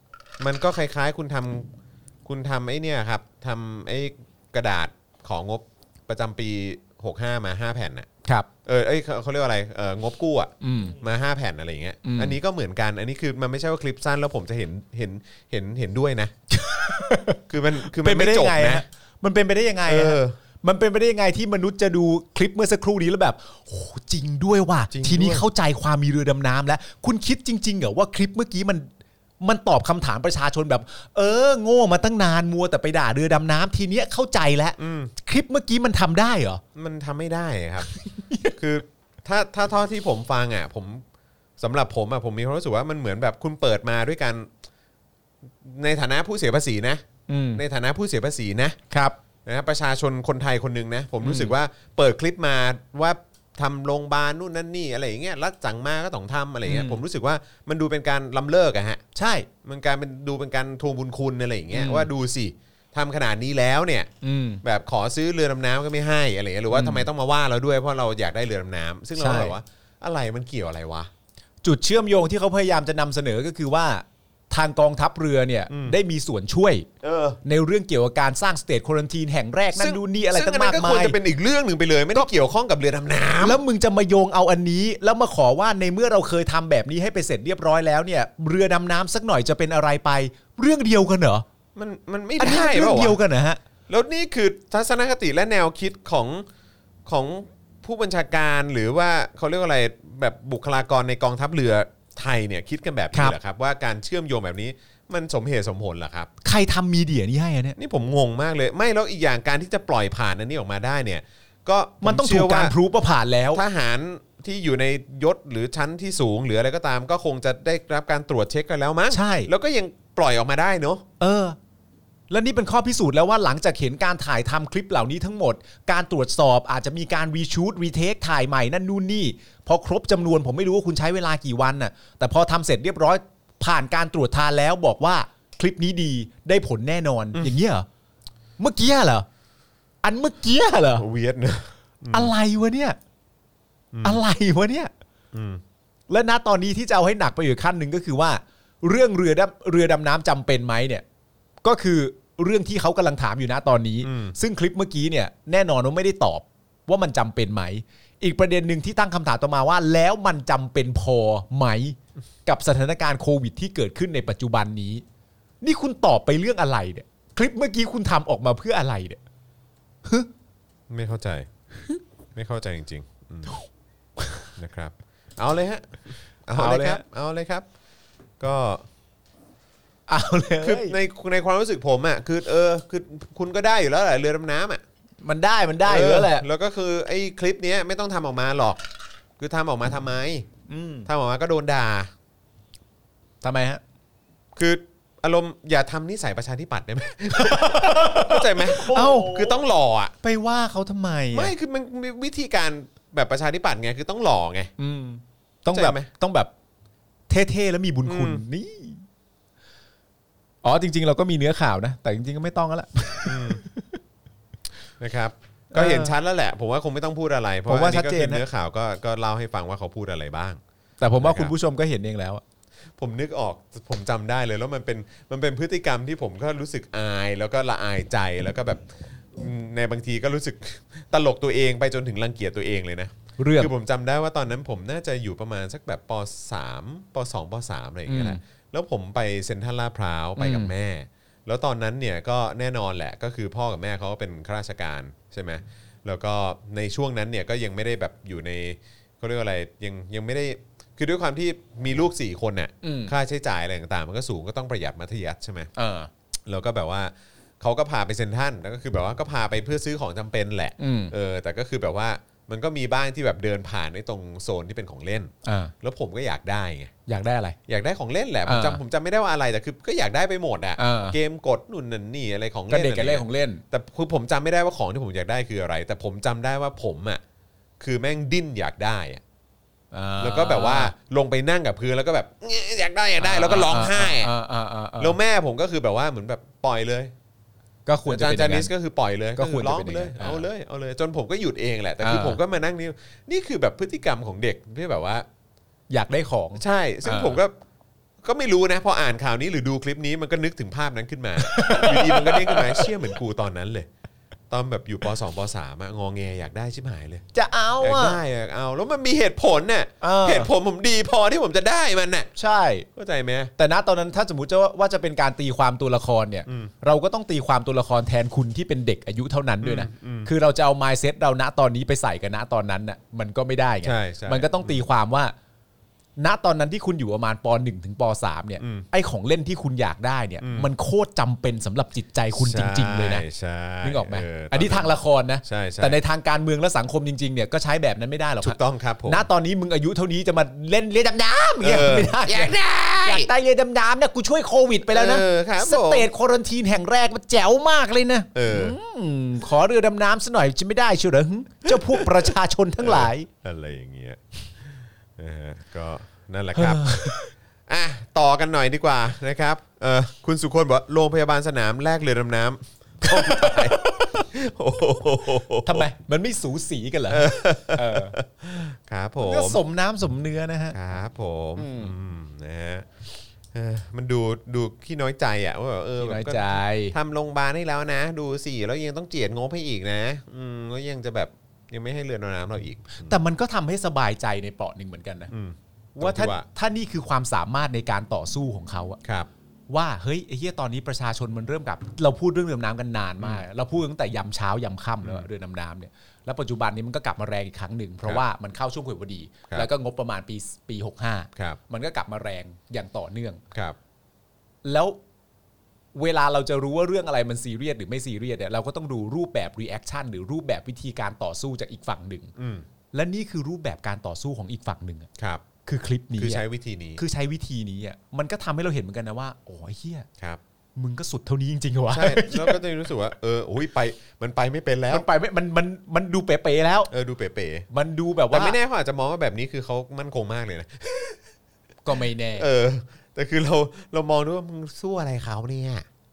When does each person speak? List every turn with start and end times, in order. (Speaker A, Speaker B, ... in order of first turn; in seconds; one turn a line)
Speaker A: 0.4-1.7
Speaker A: 2.2-8.1
Speaker A: 8.6-16.3
Speaker B: 10.6-10.9
Speaker B: 12.0-12.4
Speaker B: 16.5-28.9
Speaker A: 17.5-18.8
Speaker A: 19.9-20.4
Speaker A: 24.9-25.4
Speaker B: 29.4-36.6
Speaker A: 34.8-35.1
Speaker A: 36.7-37.9
Speaker B: 37.9-38.6
Speaker A: 38.6-41.0
Speaker A: 41.6-44.5
Speaker A: 45.6-48.8
Speaker B: 47.3-47.6
Speaker B: 48.9-49.2
Speaker A: 49.4-59.0
Speaker B: 51.2-51.5
Speaker B: 56.6-57.0
Speaker B: 59.1-59.5
Speaker A: 59.6-64.1
Speaker B: 61.7-62.1
Speaker B: 64.2-64.6
Speaker A: 64.6-71.1
Speaker B: 66.7-67.1
Speaker B: 69.2-69.5
Speaker B: 71.6-76.9
Speaker A: 75.7-75.9
Speaker A: 77.0-77.4
Speaker B: 77.4-81.2
Speaker A: 79.7-83.6
Speaker B: 83.4-91.4
Speaker A: 91.7-93.2
Speaker B: 92.4-93.6
Speaker A: 93.9-96.5
Speaker A: 97.0-106.3
Speaker B: 106.4-107.8
Speaker A: 107.8-112.7
Speaker B: 112.0-113.6
Speaker A: 113.5-121.0
Speaker B: 119.1-119.5
Speaker B: 121.2-121.6
Speaker B: 122.3-137.8
Speaker B: 138.6-139.3
Speaker B: 140.0-141.1
Speaker A: 140.9-142.3
Speaker B: 142.1-143.0
Speaker A: 143.9-144.2
Speaker B: 144.0-144.9
Speaker A: 145.3-145.6
Speaker B: 146.1-151.0
Speaker B: 151.6-165.0
Speaker A: 154.0-154.3
Speaker B: 165.6-169.2
Speaker A: 170.9-171.5
Speaker A: 172.3-173.6
Speaker B: 174.2-174.5
Speaker A: 174.6-177.6
Speaker B: 176.5-177.0
Speaker A: 178.4-178.8
Speaker B: 180.1-181.0
Speaker A: 180.6-184.8
Speaker B: 185.2-186.5
Speaker A: 185.8-188.8
Speaker A: 189.4-190.5
Speaker B: 190.7-191.1
Speaker A: 191.1-192.1
Speaker B: 193.4-193.8
Speaker A: 194.6-200.1
Speaker B: 197.3-199.5
Speaker B: 200.2-201.5
Speaker A: 201.3-204.7
Speaker B: 204.8-206.5
Speaker A: 205.7-206.1
Speaker B: 207.3-209.0
Speaker A: 208.0-208.4
Speaker B: 210.6-214.0
Speaker A: 213.2-213.6
Speaker A: 215.0-220.6
Speaker B: 215.7-216.1
Speaker B: 217.7-218.4
Speaker B: 221.0-222.4
Speaker A: 221.2-221.5
Speaker A: 223.0-255.7
Speaker B: 233.4-233.7
Speaker B: 238.1-238.4
Speaker B: 240.4-240.7
Speaker B: 252.8-253.1
Speaker B: 255.8-256.1
Speaker A: 256.4-266.9
Speaker B: 260.8-261.1
Speaker B: 265.4-265.7
Speaker B: 267.1-267.6
Speaker A: 267.7-277.2
Speaker B: 268.4-268.8
Speaker B: 270.8-271.2
Speaker B: 272.7-273.6
Speaker A: 277.8-279.2
Speaker B: 279.9-280.9
Speaker A: 280.2-284.3
Speaker B: 283.2-285.2
Speaker A: 285.0-287.1
Speaker B: 287.9-288.7
Speaker A: 288.1-295.3
Speaker B: 289.4-290.5
Speaker B: 292.0-292.4
Speaker B: 295.9-297.4
Speaker A: 296.6-297.5
Speaker A: 298.2-303.9
Speaker B: 301.4-302.9
Speaker A: 304.5-307.2
Speaker B: 307.3-308.2
Speaker A: 307.8-312.3
Speaker B: 310.0-310.5
Speaker B: 312.4-312.9
Speaker A: 312.9-313.5
Speaker B: 313.6-325.3
Speaker A: 319.6-320.3
Speaker A: 323.8-324.8
Speaker B: 326.2-333.2
Speaker A: 328.6-328.9
Speaker A: 330.4-330.7
Speaker A: 332.3-336.0
Speaker B: 333.8-353.3
Speaker A: 338.4-339.2
Speaker A: 341.6-343.3
Speaker A: 344.9-346.1
Speaker A: 348.3-348.8
Speaker A: 351.6-354.2
Speaker A: 355.2-365.9
Speaker B: 356.5-357.3
Speaker B: 363.0-364.2
Speaker B: 365.6-368.1
Speaker A: 367.1-369.6
Speaker B: 369.2-370.8
Speaker A: 370.7-383.2
Speaker B: 371.6-371.9
Speaker B: 376.0-376.9
Speaker B: 383.0-385.3
Speaker A: 385.3-386.4
Speaker B: 385.9-389.0
Speaker A: 389.0-389.3
Speaker B: 389.7-403.4
Speaker B: 404.6-405.0
Speaker B: 405.9-412.3
Speaker A: 412.4-412.6
Speaker B: 412.9-415.1
Speaker A: 415.2-415.4
Speaker B: 415.6-416.4
Speaker A: 416.2-417.0
Speaker B: 416.9-420.1
Speaker B: 420.8-422.6
Speaker A: 421.9-425.1
Speaker B: 424.9-426.9
Speaker A: 426.9-427.7
Speaker B: 427.7-428.6
Speaker A: 428.3-431.2
Speaker B: 431.8-432.5
Speaker A: 432.3-435.9